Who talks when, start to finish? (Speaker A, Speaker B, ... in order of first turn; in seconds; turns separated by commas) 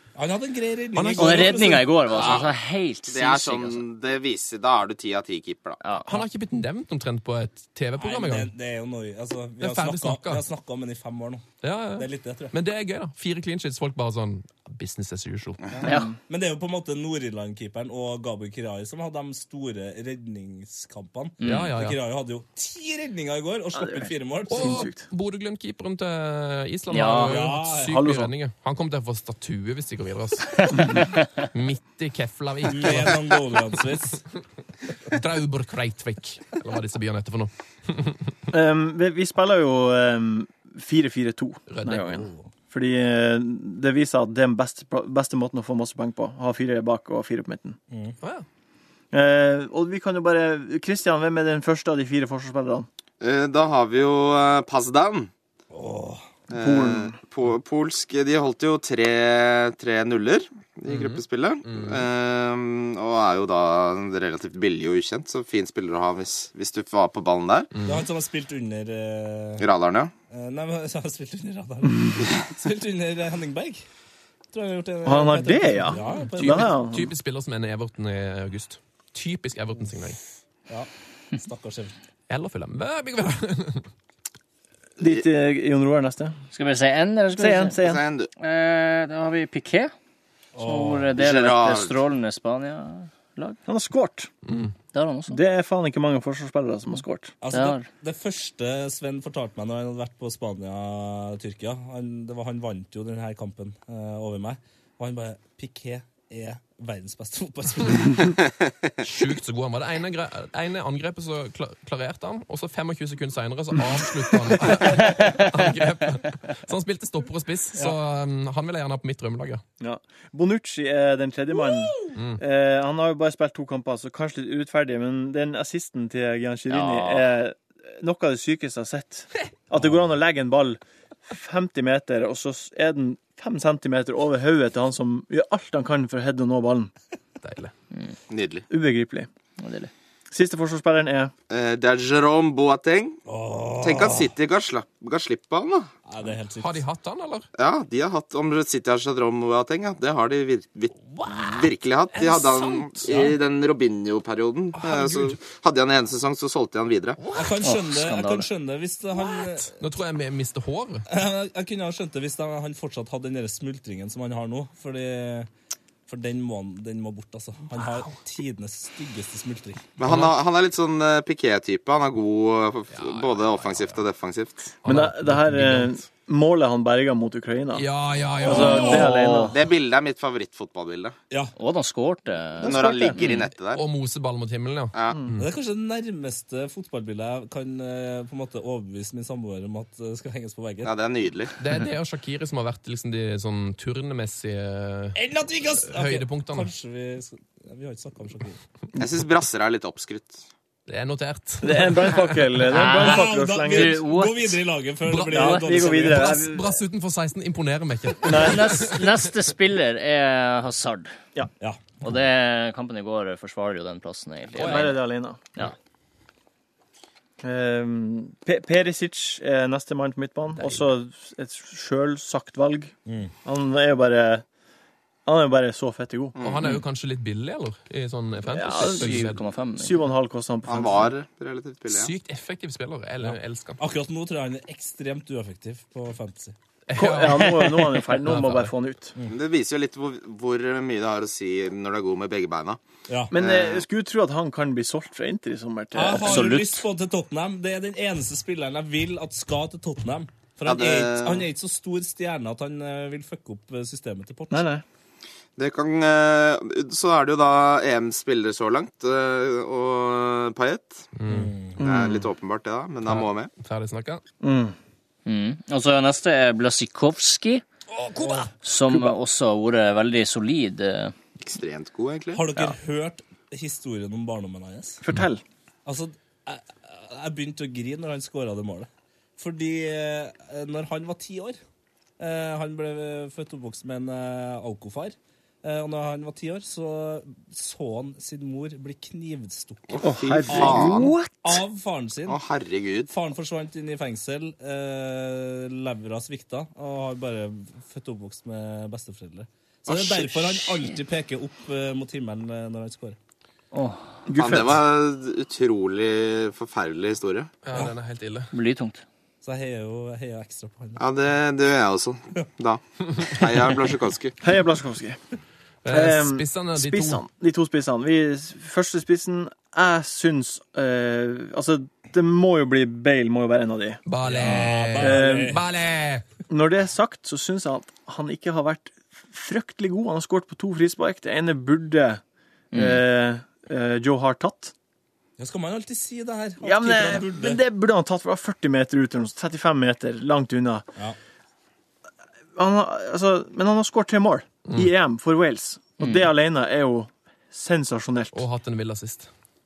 Speaker A: 0.1-2.3, Speaker B: 0.9-1.6, Speaker C: 1.2-3.8, Speaker D: 2.1-2.5, Speaker D: 3.0-5.8, Speaker C: 5.8-6.1, Speaker B: 6.0-8.5, Speaker A: 8.0-12.5, Speaker B: 9.6-10.4, Speaker B: 11.6-15.6, Speaker C: 15.8-16.1, Speaker E: 15.8-16.1, Speaker A: 16.3-24.9, Speaker C: 21.4-21.7, Speaker B: 21.4-22.0, Speaker E: 23.8-25.0, Speaker B: 24.5-33.2, Speaker C: 26.9-27.4, Speaker A: 27.3-28.0, Speaker E: 27.9-28.3, Speaker C: 30.7-31.1, Speaker A: 32.7-34.2, Speaker B: 35.1-38.4, Speaker E: 38.5-47.8, Speaker B: 41.7-42.0, Speaker A: 42.1-42.5, Speaker A: 47.9-48.1, Speaker E: 49.1-52.9, Speaker D: 53.2-55.3, Speaker A: 55.7-56.3, Speaker D: 56.5-67.7, Speaker E: 56.6-57.2, Speaker B: 60.9-62.0, Speaker B: 67.7-68.1, Speaker A: 67.8-69.7, Speaker D: 69.6-70.1, Speaker A: 70.3-73.8, Speaker A: 74.5-76.7, Speaker E: 75.0-77.1, Speaker B: 76.3-80.2, Speaker A: 80.7-81.9, Speaker B: 82.3-83.9, Speaker E: 85.0-86.4, Speaker C: 86.5-87.8, Speaker E: 87.3-88.0, Speaker D: 87.8-88.3, Speaker C: 88.4-89.9, Speaker A: 90.5-91.1, Speaker C: 90.6-93.6, Speaker D: 91.2-92.0, Speaker E: 93.7-94.3, Speaker B: 94.5-94.7, Speaker C: 94.9-95.4, Speaker E: 95.3-97.3, Speaker A: 97.4-108.3, Speaker C: 97.5-97.8, Speaker B: 109.0-119.6, Speaker C: 115.0-115.5, Speaker E: 119.8-136.9, Speaker B: 122.1-122.4, Speaker C: 126.7-127.3, Speaker B: 137.4-137.7, Speaker D: 138.3-138.7, Speaker E: 138.7-139.3, Speaker C: 139.6-139.9, Speaker E: 140.3-141.3, Speaker D: 141.5-143.2, Speaker A: 143.3-144.3, Speaker D: 143.8-145.9, Speaker A: 146.1-146.8, Speaker B: 146.6-147.5, Speaker D: 147.6-157.2, Speaker B: 151.1-153.3, Speaker A: 153.1-153.3, Speaker B: 154.8-155.4, Speaker A: 157.3-159.7, Speaker C: 157.6-158.5, Speaker B: 159.4-161.1, Speaker A: 161.1-165.5, Speaker A: 166.1-169.9, Speaker B: 167.7-168.1, Speaker D: 170.0-174.7, Speaker B: 170.0-170.3, Speaker B: 172.9-174.0, Speaker B: 174.8-176.0, Speaker E: 174.8-177.8, Speaker B: 177.7-179.4, Speaker E: 178.4-179.6, Speaker A: 178.5-179.2, Speaker D: 178.9-181.1, Speaker C: 181.6-182.8, Speaker E: 182.6-183.2, Speaker D: 182.6-183.8, Speaker B: 183.2-185.5, Speaker D: 184.9-185.2, Speaker A: 185.4-190.9, Speaker D: 190.8-191.5, Speaker B: 191.6-195.2, Speaker A: 195.2-198.6, Speaker B: 195.9-196.7, Speaker D: 199.0-200.4, Speaker B: 200.9-202.6, Speaker E: 201.6-204.0, Speaker A: 202.7-206.5, Speaker C: 202.7-204.6, Speaker B: 205.1-209.3, Speaker E: 205.3-206.8, Speaker E: 208.2-208.9, Speaker C: 208.3-211.2, Speaker A: 211.6-211.9, Speaker C: 212.0-215.0, Speaker A: 214.6-214.9, Speaker E: 214.6-215.4, Speaker E: 217.4-222.9, Speaker B: 220.6-220.8, Speaker A: 223.1-223.3, Speaker E: 223.4-224.4, Speaker E: 225.2-226.4, Speaker D: 226.3-226.6, Speaker B: 226.4-229.4, Speaker E: 228.5-231.1, Speaker C: 228.8-230.0, Speaker D: 230.7-232.1, Speaker B: 231.9-233.8, Speaker A: 233.2-236.6, Speaker B: 236.9-238.7, Speaker E: 236.9-239.1, Speaker D: 239.3-242.8, Speaker A: 243.1-243.3, Speaker E: 243.3-246.6, Speaker D: 243.3-243.8, Speaker A: 245.9-254.7, Speaker C: 246.2-246.8, Speaker D: 250.6-251.5, Speaker E: 254.5-254.8, Speaker D: 255.6-261.1, Speaker B: 261.2-261.5, Speaker A: 261.3-261.8, Speaker E: 261.8-262.3, Speaker D: 261.8-263.5, Speaker B: 263.0-264.2, Speaker E: 264.4-264.8, Speaker C: 265.2-267.6, Speaker A: 267.9-268.5, Speaker C: 268.6-271.1, Speaker D: 271.4-272.7, Speaker A: 272.3-275.0, Speaker E: 275.0-275.4, Speaker A: 275.9-281.6, Speaker A: 282.2-292.4, Speaker D: 289.9-291.1, Speaker E: 290.0-291.6, Speaker D: 292.3-293.1, Speaker A: 293.1-303.2, Speaker C: 303.7-304.0, Speaker E: 304.2-304.8, Speaker D: 304.4-307.5, Speaker B: 307.6-308.5, Speaker C: 308.5-309.0, Speaker A: 309.4-311.0, Speaker D: 311.0-314.3, Speaker B: 313.1-313.4, Speaker E: 314.4-315.2, Speaker B: 315.8-317.2, Speaker E: 315.9-324.0, Speaker B: 324.1-326.2, Speaker A: 324.2-325.6, Speaker E: 325.0-325.6, Speaker E: 326.5-332.2, Speaker C: 332.7-333.0, Speaker E: 332.7-334.7, Speaker A: 335.4-337.6, Speaker E: 336.6-340.9, Speaker E: 342.6-348.4, Speaker C: 346.0-346.3, Speaker B: 348.3-349.3